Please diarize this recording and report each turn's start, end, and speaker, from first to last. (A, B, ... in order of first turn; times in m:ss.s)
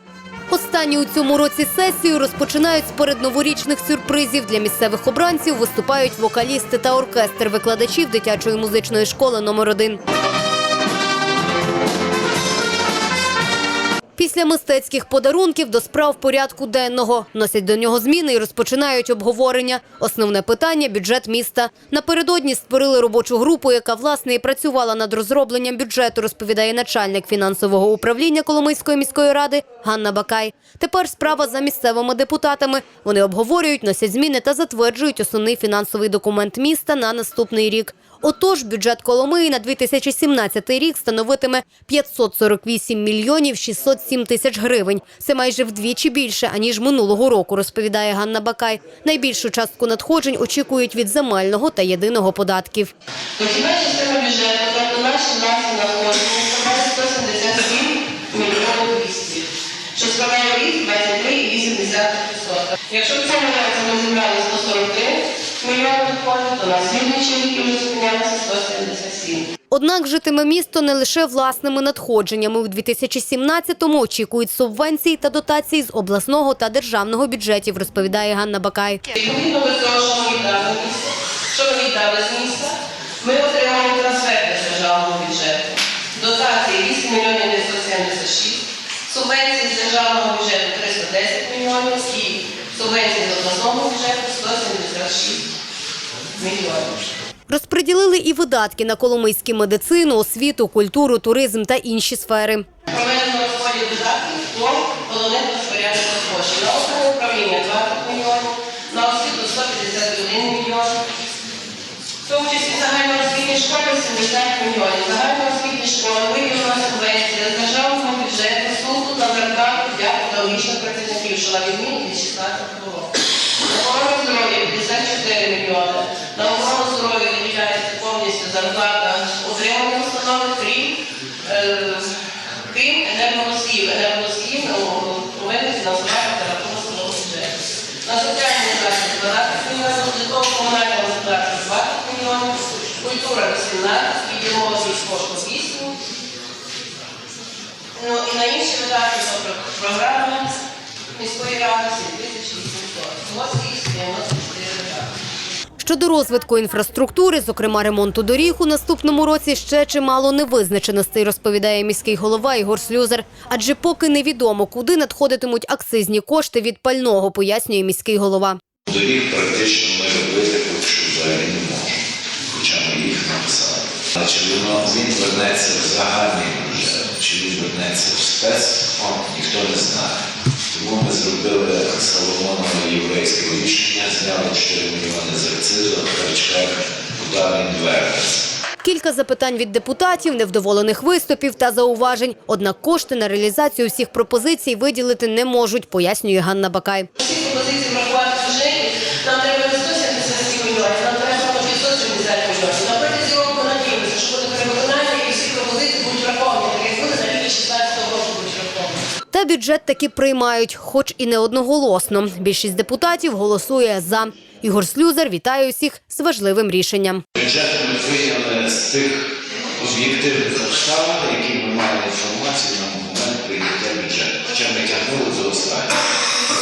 0:00.5-0:10.0 A
0:14.2-0:52.9 A
0:53.4-1:09.5 B
1:09.7-1:19.0 A
1:19.1-1:35.4 B
1:36.4-1:36.9 B
1:37.5-1:42.6 A
1:42.9-1:51.0 B
1:52.2-2:03.1 B
2:03.6-2:12.1 B
2:12.7-2:26.0 B
2:27.9-2:30.6 B
2:31.1-2:35.1 B
2:35.8-2:48.6 A
2:48.8-3:08.4 C
3:08.8-3:17.1 A
3:17.2-3:29.0 B
3:29.3-3:37.2 A
3:37.4-3:45.9 C